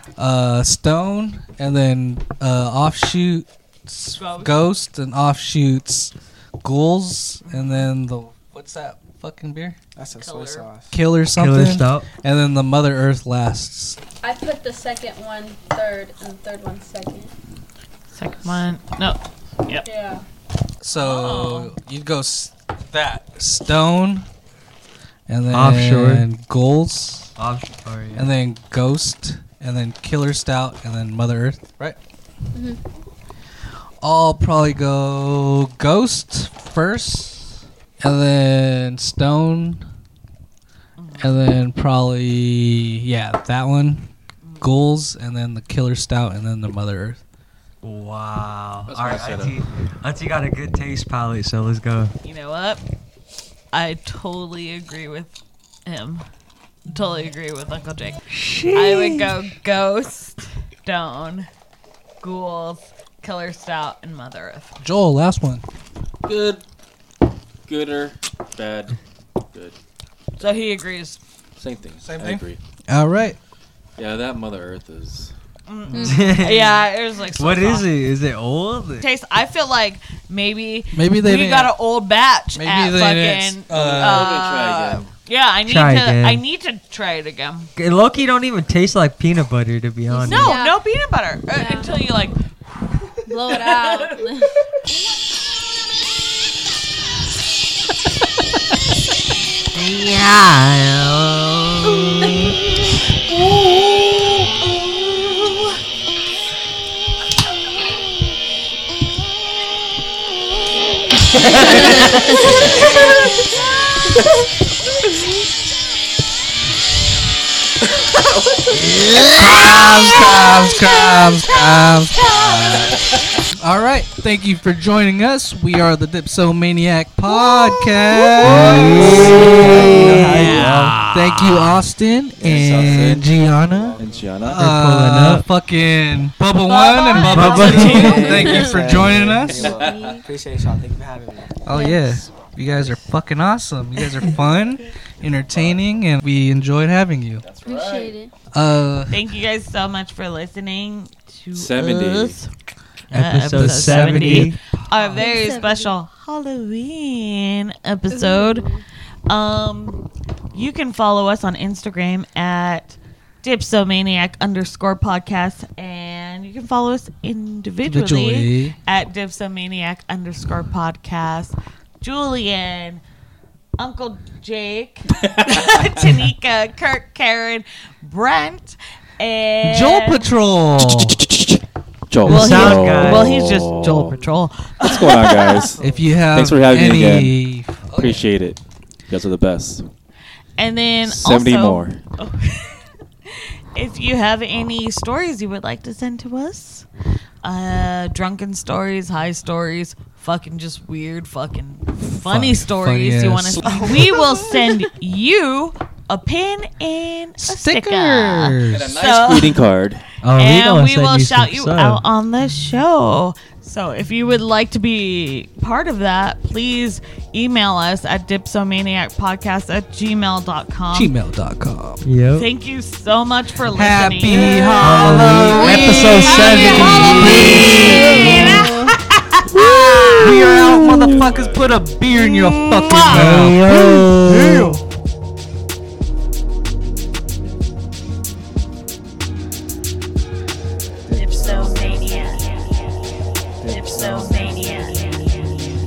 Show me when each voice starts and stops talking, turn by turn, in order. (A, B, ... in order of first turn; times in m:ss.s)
0:00.2-0:09.8 A
0:04.2-0:04.7 B
0:07.4-0:07.8 B
0:10.0-0:10.9 C
0:10.2-0:10.7 B
0:10.9-0:14.0 A
0:11.3-0:12.1 D
0:14.2-0:17.3 E
0:18.1-0:19.9 B
0:19.8-0:20.2 E
0:20.8-0:24.2 A
0:21.0-0:21.7 B
0:25.3-0:27.3 A
0:25.5-0:26.2 D
0:27.4-0:28.3 D
0:28.2-0:32.0 A
0:32.5-0:32.8 E
0:34.0-0:39.8 A
0:41.0-0:41.3 B
0:41.2-0:44.1 A
0:44.4-0:44.7 B
0:44.6-0:47.2 A
0:47.8-0:52.2 D
0:48.9-0:49.6 F
0:52.2-0:52.8 B
0:53.7-0:56.3 B
0:56.9-1:01.5 B
0:58.3-0:59.3 D
1:02.2-1:04.8 B
1:04.8-1:05.6 A
1:06.2-1:06.6 F
1:07.7-1:09.0 F
1:10.4-1:11.2 B
1:11.6-1:12.6 F
1:12.0-1:13.4 A
1:14.0-1:15.3 F
1:15.7-1:17.9 B
1:15.9-1:16.3 E
1:16.0-1:19.0 D
1:19.0-1:27.7 B
1:20.9-1:21.7 A
1:22.6-1:24.4 A
1:23.7-1:25.1 F
1:25.7-1:26.4 D
1:27.8-1:30.6 D
1:30.1-1:30.8 E
1:30.2-1:32.4 B
1:31.5-1:32.0 E
1:33.3-1:34.5 E
1:33.5-1:34.2 B
1:39.7-1:42.5 D
1:51.8-1:52.1 D
1:58.8-1:59.6 D
1:59.0-2:03.2 B
1:59.2-2:19.7 A
2:07.3-2:11.0 B
2:08.5-2:11.6 D
2:12.4-2:14.8 F
2:12.6-2:14.3 C
2:14.4-2:15.4 D
2:16.6-2:18.6 B
2:17.1-2:19.0 E
2:17.2-2:18.3 D
2:17.8-2:21.6 C
2:19.2-2:20.2 F
2:19.7-2:20.2 E
2:21.6-2:27.4 A
2:21.7-2:22.2 E
2:25.5-2:25.8 F
2:27.4-2:28.2 F
2:27.6-2:28.3 E
2:28.5-2:29.2 A
2:29.1-2:32.5 B
2:31.6-2:32.4 F
2:33.1-2:38.7 B
2:33.1-2:34.6 D
2:33.5-2:34.6 A
2:35.1-2:36.0 E
2:38.1-2:38.8 E
2:39.3-2:53.0 B
2:47.8-2:48.8 A
2:53.8-3:00.3 B
2:55.2-2:55.6 F
2:59.6-3:01.2 A
3:00.8-3:04.2 F
3:02.2-3:04.0 D
3:02.2-3:05.7 B
3:04.8-3:07.4 F
3:05.8-3:08.3 A
3:05.8-3:06.1 C
3:07.9-3:09.8 F
3:10.6-3:16.9 B
3:11.0-3:12.0 F
3:17.4-3:29.7 B
3:22.1-3:24.9 A
3:23.6-3:24.0 C
3:27.4-3:29.0 A
3:28.6-3:30.0 F
3:30.2-3:32.0 D
3:30.3-3:41.1 B
3:40.9-3:42.0 A
3:42.0-3:42.5 D
3:42.4-3:48.8 B
3:43.7-3:49.5 A
3:44.8-3:48.6 D
3:45.5-3:48.9 E
3:49.5-3:50.5 B
3:49.6-3:51.2 D
3:50.1-3:54.8 A
3:51.0-3:51.9 F
3:52.5-3:53.4 B
3:52.9-3:54.7 D
3:54.2-3:54.8 C
4:01.1-4:02.8 G
4:03.6-4:05.7 G